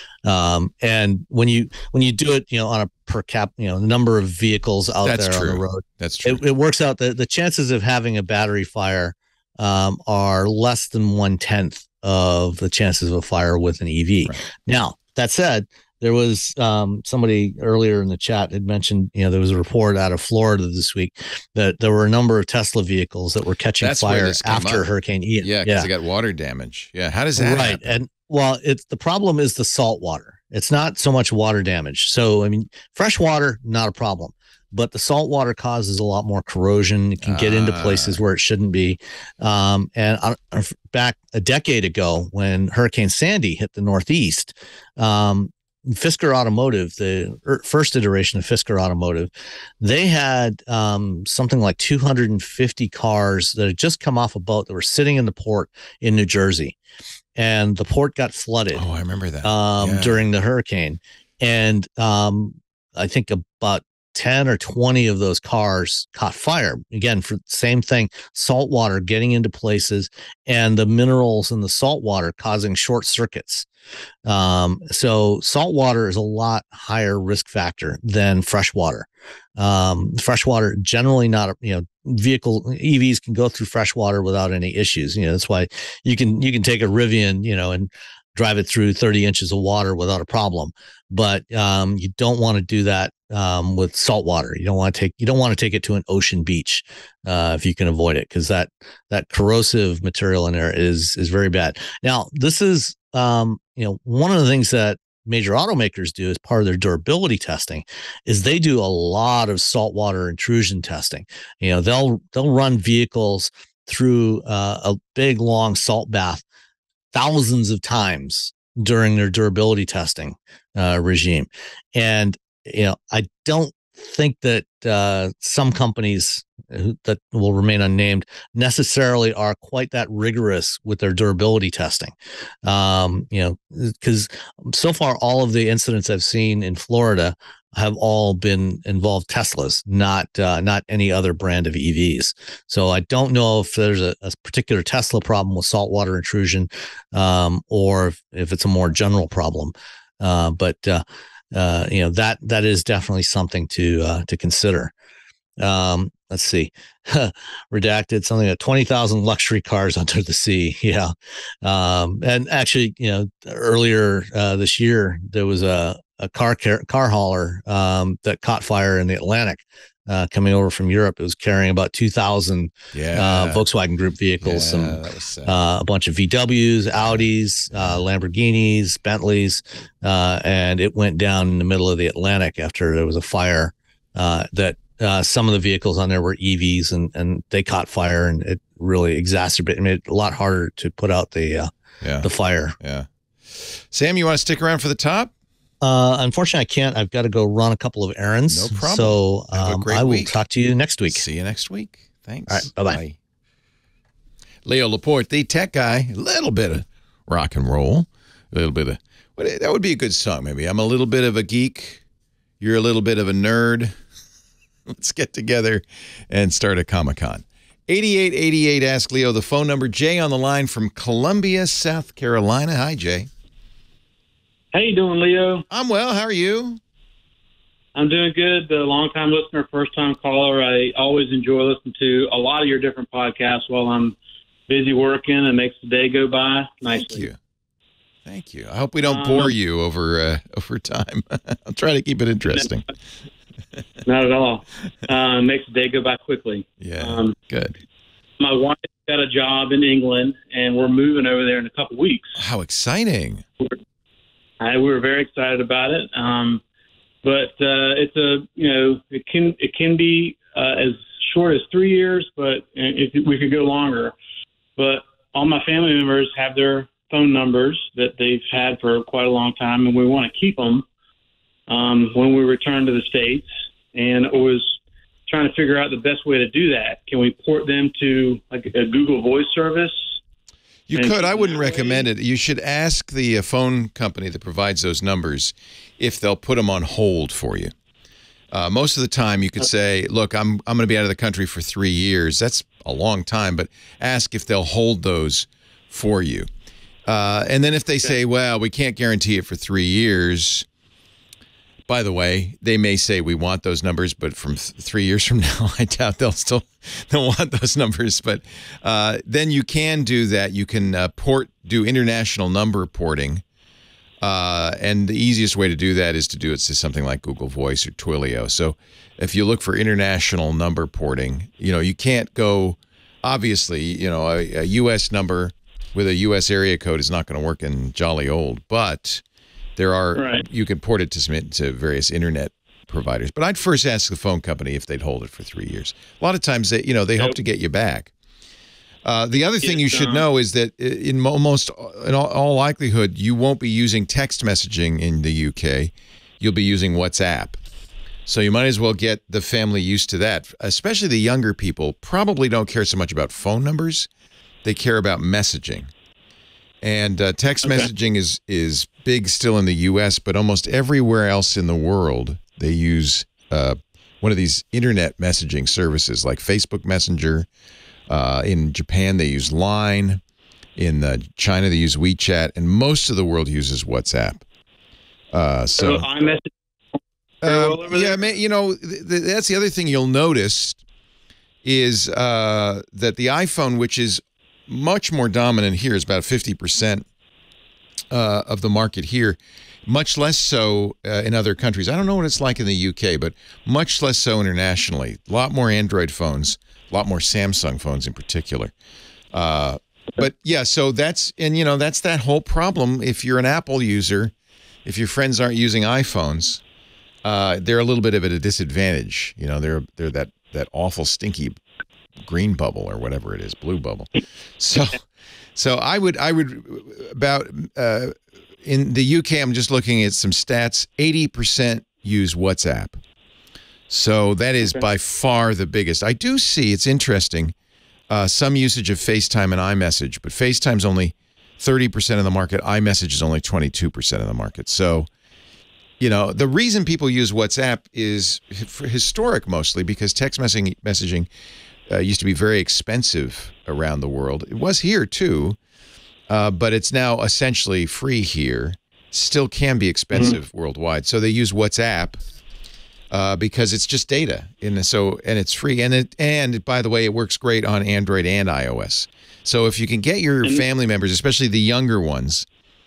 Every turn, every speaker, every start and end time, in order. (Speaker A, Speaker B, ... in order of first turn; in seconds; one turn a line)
Speaker A: 0.2-25.9
Speaker B: 5.0-6.4
Speaker B: 23.8-24.9
Speaker B: 25.4-27.8
Speaker A: 27.4-56.8
Speaker B: 37.2-38.2
Speaker A: 57.4-58.8
Speaker B: 58.7-60.2
Speaker A: 59.4-73.7
Speaker A: 74.3-116.4
Speaker A: 117.1-132.1
Speaker A: 132.7-154.9
Speaker A: 155.6-191.7
Speaker B: 172.9-173.6
Speaker B: 174.4-175.6
Speaker B: 177.0-178.0
Speaker B: 192.0-192.3
Speaker A: 192.2-192.8
Speaker B: 192.8-195.3
Speaker A: 195.8-201.2
Speaker B: 198.5-200.3
Speaker B: 201.1-203.2
Speaker A: 202.5-203.0
Speaker B: 204.7-212.0
Speaker B: 212.6-214.0
Speaker B: 214.9-223.3
Speaker C: 224.7-225.7
Speaker B: 225.7-226.8
Speaker C: 227.9-234.2
Speaker C: 234.7-237.3
Speaker B: 236.9-237.4
Speaker B: 238.3-242.8
Speaker C: 239.0-239.5
Speaker C: 244.0-247.4
Speaker B: 246.8-247.8
Speaker C: 248.4-252.4
Speaker B: 252.4-253.4
Speaker C: 254.6-256.6
Speaker C: 257.2-264.1
Speaker C: 264.8-270.9
Speaker C: 271.7-280.0
Speaker B: 280.9-287.7
Speaker C: 280.9-282.1
Speaker B: 288.5-296.5
Speaker B: 297.1-300.7
Speaker B: 301.9-313.4
Speaker B: 314.2-329.2
Speaker B: 329.8-338.1
Speaker C: 330.2-330.4
Speaker B: 339.1-347.6
Speaker C: 339.6-340.2
Speaker B: 348.3-354.1
Speaker B: 354.6-355.9
Speaker B: 356.8-367.5
Speaker C: 357.6-357.9
Speaker B: 368.1-370.2
Speaker B: 370.8-374.4
Speaker B: 375.3-376.1
Speaker C: 375.8-376.5
Speaker B: 377.4-380.8
Speaker C: 377.4-378.2
Speaker B: 381.6-387.1
Speaker B: 388.1-398.7
Speaker B: 399.3-404.3
Speaker B: 404.9-406.6
Speaker B: 407.2-411.6
Speaker B: 412.3-415.0
Speaker B: 415.6-423.0
Speaker B: 423.9-427.6
Speaker B: 428.1-435.1
Speaker B: 436.0-441.3
Speaker B: 441.9-445.6
Speaker B: 446.3-452.2
Speaker C: 450.1-450.4
Speaker B: 453.1-462.5